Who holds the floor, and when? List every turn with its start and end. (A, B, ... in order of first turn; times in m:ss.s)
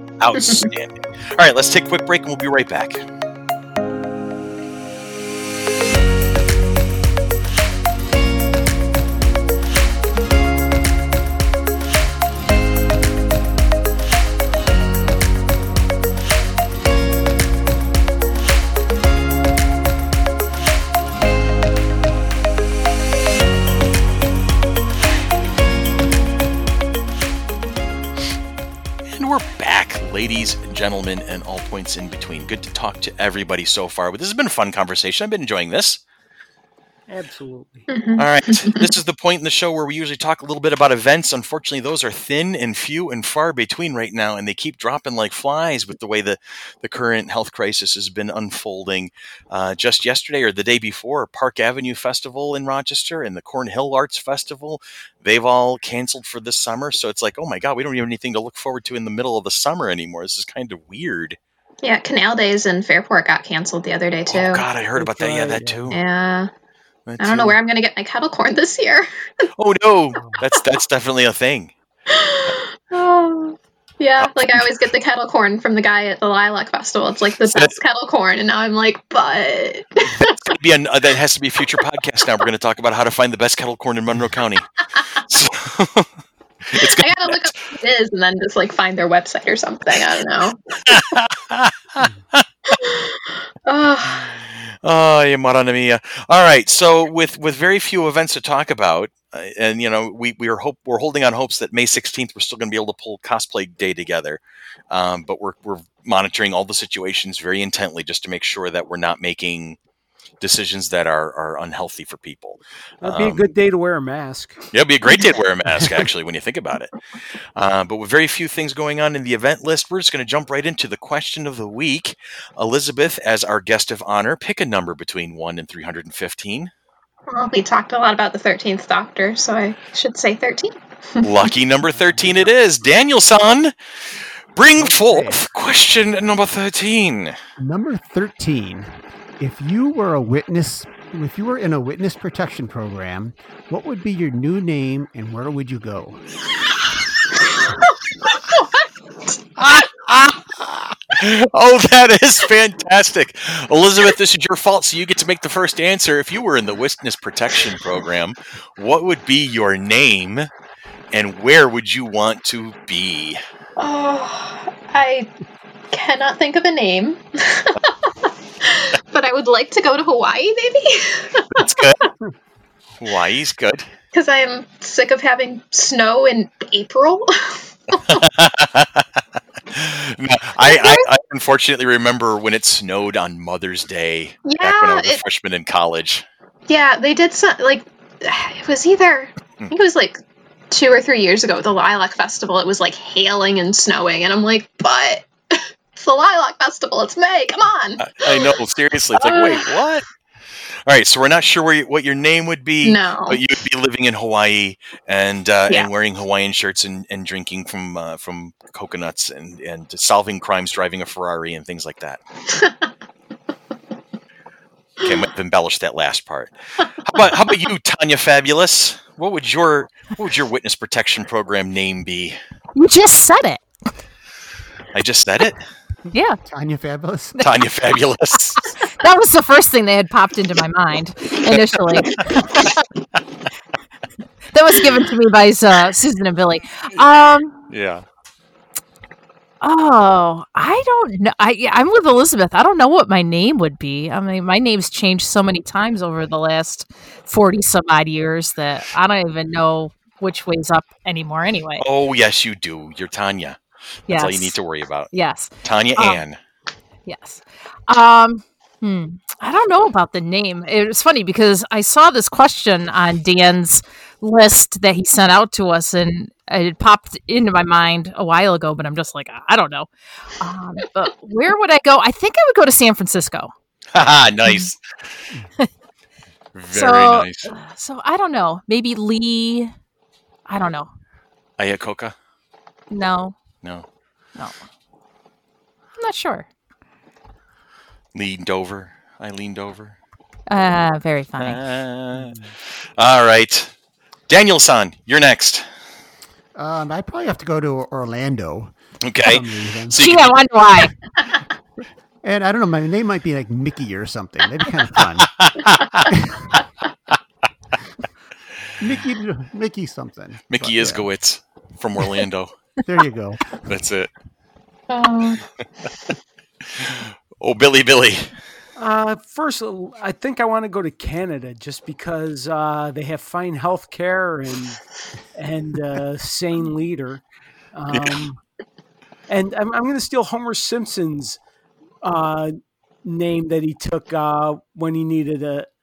0:00.2-0:03.0 A
0:00.3-0:00.7 B
0:29.1-0:36.0 A
0:37.1-0:37.9 C
0:37.9-0:38.9 B
0:38.2-1:01.4 A
1:01.8-1:04.6 B
1:04.3-1:06.0 A
1:05.0-1:06.0 C
1:05.9-1:06.5 B
1:07.0-1:07.6 A
1:07.2-1:09.5 B
1:09.6-1:11.7 A
1:12.1-1:20.5 B
1:14.2-1:14.6 A
1:17.4-1:17.7 A
1:20.4-1:26.1 A
1:26.6-1:27.5 A
1:26.8-1:31.2 B
1:30.9-1:32.4 A
1:32.7-1:34.3 B
1:34.8-1:49.8 A
1:50.4-1:53.4 A
1:53.0-1:54.7 C
1:54.7-1:57.0 A
1:57.6-2:06.7 A
2:07.3-2:11.2 B
2:11.2-2:13.7 A
2:14.5-2:17.4 A
2:14.8-2:15.4 D
2:17.6-2:26.2 D
2:28.3-2:28.7 B
2:29.6-2:40.5 A
2:41.1-2:43.4 A
2:43.8-2:45.3 B
2:45.9-2:52.1 B
2:51.6-2:52.0 A
2:53.0-2:53.9 A
2:54.1-2:58.2 B
2:58.0-3:06.2 A
3:00.6-3:01.1 B
3:04.4-3:05.2 B
3:06.7-3:10.2 B
3:10.7-3:18.5 B
3:18.0-3:20.0 A
3:19.1-3:19.8 B
3:20.8-3:32.2 A
3:22.8-3:23.4 B
3:32.5-3:32.9 B
3:35.0-3:42.4 A
3:42.7-3:43.6 E
3:44.9-3:45.7 A
3:46.1-3:46.4 E
3:46.4-3:47.4 D
3:47.4-3:48.6 A
3:48.8-3:52.6 E
3:51.5-3:52.8 A
3:54.5-3:57.7 E
3:57.7-3:58.0 A
3:59.6-4:11.8 E
4:11.8-4:15.1 A
4:14.1-4:14.5 E
4:15.1-4:16.2 E
4:15.6-4:16.4 A
4:17.0-4:33.5 E
4:33.9-4:34.8 A
4:36.5-4:37.5 A
4:36.7-4:39.7 E
4:40.5-4:40.9 E
4:41.6-4:42.1 A
4:42.9-4:43.4 E
4:46.0-4:46.5 E
4:48.1-4:50.0 A
4:50.5-4:51.6 E
4:51.4-4:52.3 A
4:52.1-4:52.5 C
4:53.0-4:53.7 A
4:54.3-4:55.6 A
4:56.5-5:00.0 D
4:59.0-5:00.3 A
5:00.0-5:01.0 E
5:02.2-5:05.4 D
5:05.3-5:06.0 A
5:06.1-5:06.5 D
5:08.8-5:11.1 D
5:10.5-5:12.6 A
5:12.8-5:13.6 D
5:13.6-5:14.1 A
5:14.9-5:15.4 B
5:16.8-5:18.4 A
5:18.8-5:24.8 C
5:25.3-5:28.4 C
5:27.9-5:28.2 A
5:29.3-5:31.4 C
5:32.0-5:35.7 C